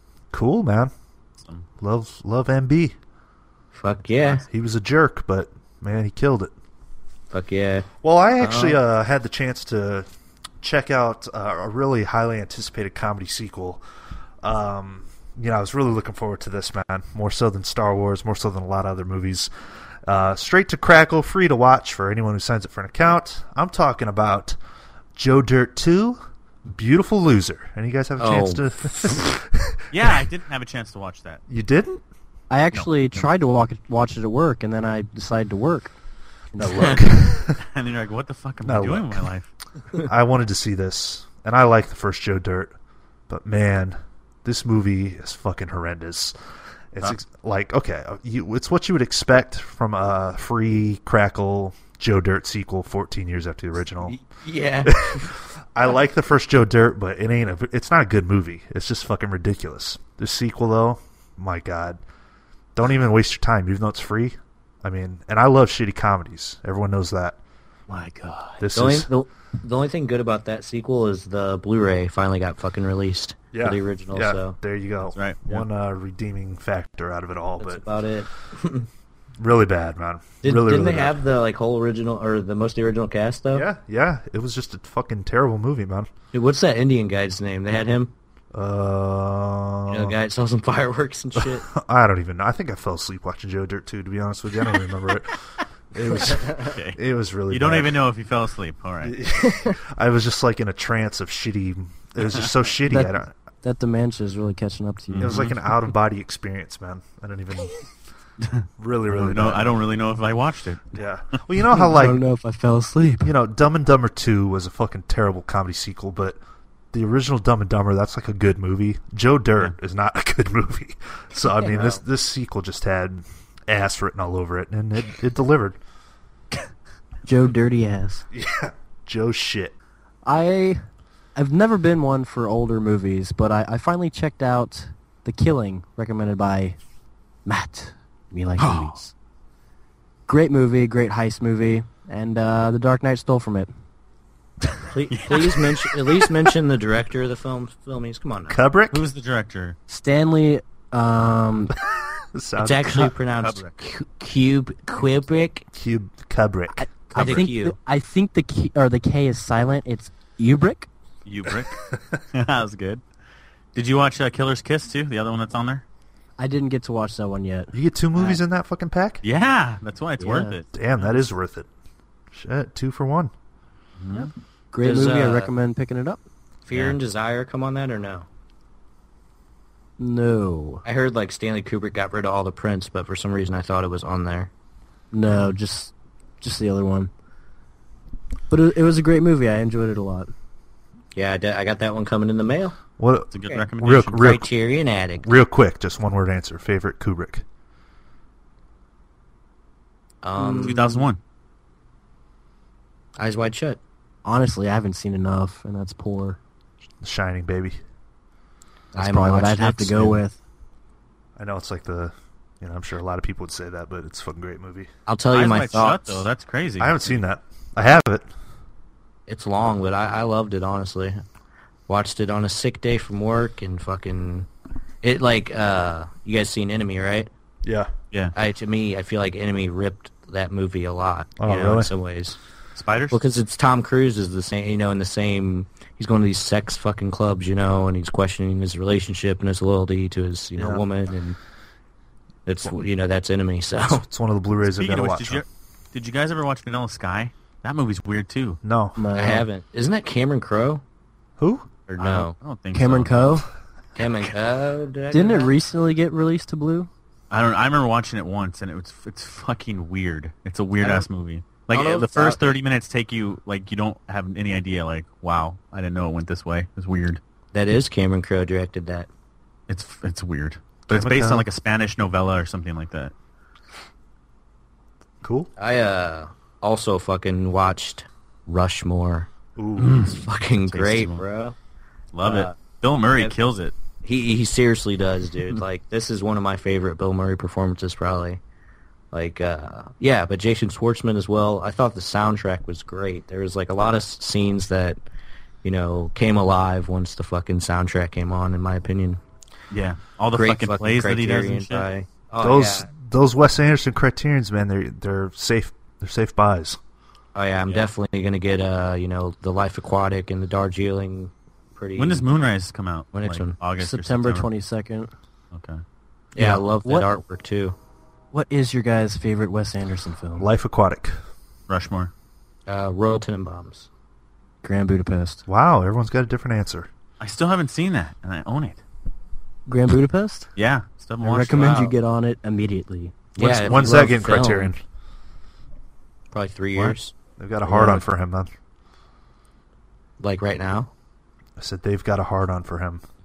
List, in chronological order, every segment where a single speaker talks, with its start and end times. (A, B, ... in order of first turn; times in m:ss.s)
0:00.3-0:00.9 A
0:01.8-0:03.0 A
0:03.7-0:04.4 B
0:04.3-0:06.5 A
0:07.3-0:07.9 B
0:08.0-0:10.1 A
0:08.4-0:08.8 B
0:10.6-0:13.8 A
0:14.4-0:19.5 A
0:20.1-0:24.6 A
0:25.2-0:26.2 A
0:26.7-0:30.2 A
0:28.2-0:28.6 B
0:29.9-0:31.4 C
0:31.5-0:32.0 A
0:32.5-0:35.9 D
0:36.5-0:37.0 D
0:36.6-0:37.6 A
0:36.8-0:37.1 B
0:37.6-0:39.5 C
0:38.6-0:39.3 A
0:40.0-0:42.7 A
0:43.3-0:46.4 A
0:46.9-0:54.2 A
0:54.0-0:55.3 B
0:54.8-1:02.0 A
1:02.8-1:07.4 A
1:07.9-1:08.6 D
1:08.6-1:09.1 A
1:08.7-1:14.6 B
1:13.5-1:17.8 A
1:15.2-1:15.7 C
1:17.6-1:18.9 B
1:19.4-1:21.2 A
1:20.4-1:23.7 B
1:23.5-1:26.1 A
1:26.3-1:28.1 B
1:28.5-1:30.2 A
1:29.9-1:31.7 B
1:31.4-1:38.0 A
1:36.6-1:39.2 C
1:39.0-1:43.3 A
1:42.9-1:45.5 D
1:45.1-1:45.6 C
1:45.2-1:47.8 A
1:48.4-1:51.4 C
1:48.8-1:49.8 A
1:50.9-1:52.2 A
1:51.7-1:53.3 D
1:53.2-1:56.4 A
1:56.9-2:05.8 A
2:01.6-2:02.0 B
2:07.2-2:08.3 D
2:08.3-2:09.7 A
2:10.2-2:10.8 D
2:11.4-2:16.8 D
2:17.5-2:19.1 D
2:18.6-2:19.0 C
2:20.3-2:23.7 D
2:24.9-2:28.6 B
2:25.1-2:26.3 C
2:28.5-2:29.0 A
2:28.9-2:29.8 C
2:29.9-2:31.7 D
2:32.2-2:33.1 A
2:32.6-2:35.7 B
2:33.4-2:33.8 C
2:35.7-2:37.4 A
2:36.8-2:40.9 D
2:37.2-2:37.8 B
2:41.3-2:43.0 C
2:43.7-2:45.8 C
2:46.4-2:48.4 D
2:47.7-2:49.2 A
2:49.2-2:51.1 C
2:50.2-2:50.6 D
2:50.7-2:51.7 A
2:52.3-2:53.3 A
2:54.0-2:54.3 C
2:54.2-2:56.2 D
2:54.8-2:55.5 B
2:56.7-2:58.3 B
2:56.7-2:57.0 C
3:00.0-3:00.8 D
3:00.8-3:04.5 B
3:05.1-3:07.1 D
3:08.5-3:10.3 D
3:11.2-3:12.8 B
3:13.0-3:14.5 A
3:13.3-3:14.3 C
3:13.5-3:15.3 B
3:15.2-3:17.4 A
3:20.2-3:20.8 B
3:20.4-3:21.0 D
3:20.5-3:21.2 C
3:23.2-3:23.8 B
3:24.2-3:26.4 D
3:27.0-3:27.8 A
3:28.9-3:30.2 B
3:29.0-3:30.4 D
3:31.4-3:34.9 A
3:35.1-3:36.2 B
3:35.3-3:37.2 C
3:36.8-3:38.3 A
3:39.3-3:41.2 B
3:41.9-3:44.5 B
3:45.0-3:47.3 B
3:47.6-3:47.9 A
3:48.4-3:52.4 B
3:51.4-3:51.9 A
3:52.8-3:53.2 C
3:53.1-4:01.4 B
4:00.6-4:00.8 A
4:02.5-4:04.0 B
4:03.8-4:05.4 A
4:04.6-4:08.6 C
4:08.6-4:09.0 A
4:09.0-4:09.4 D
4:09.2-4:10.8 B
4:11.4-4:11.7 A
4:11.9-4:13.4 C
4:12.0-4:12.4 B
4:12.7-4:13.5 D
4:14.0-4:15.5 B
4:15.1-4:16.9 D
4:17.3-4:27.2 C
4:20.8-4:21.1 B
4:21.7-4:22.5 B
4:27.5-4:29.1 B
4:29.7-4:33.1 C
4:30.9-4:31.5 A
4:35.2-4:35.5 A
4:35.6-4:39.3 B
4:39.6-4:40.1 A
4:39.8-4:41.2 C
4:40.0-4:41.6 B
4:42.1-4:43.7 C
4:42.2-4:42.5 B
4:44.0-4:48.4 B
4:49.1-4:55.0 B
4:55.6-4:59.2 B
4:59.7-5:01.9 C
5:00.3-5:02.9 B
5:02.4-5:06.8 A
5:07.4-5:12.2 B
5:12.0-5:14.5 C
5:13.1-5:13.6 B
5:13.8-5:15.1 D
5:15.5-5:15.8 C
5:16.4-5:17.8 B
5:16.4-5:17.1 D
5:18.3-5:20.5 D
5:20.4-5:21.2 A
5:21.7-5:22.1 C
5:22.7-5:23.9 B
5:24.6-5:25.4 D
5:25.5-5:26.9 A
5:27.2-5:28.8 C
5:29.7-5:30.5 D
5:30.6-5:31.9 C
5:31.2-5:34.2 D
5:31.6-5:31.9 B
5:33.4-5:34.7 B
5:33.4-5:34.8 A
5:36.3-5:37.1 B
5:37.4-5:38.5 A
5:37.7-5:38.0 D
5:40.2-5:40.9 B
5:41.6-5:43.0 A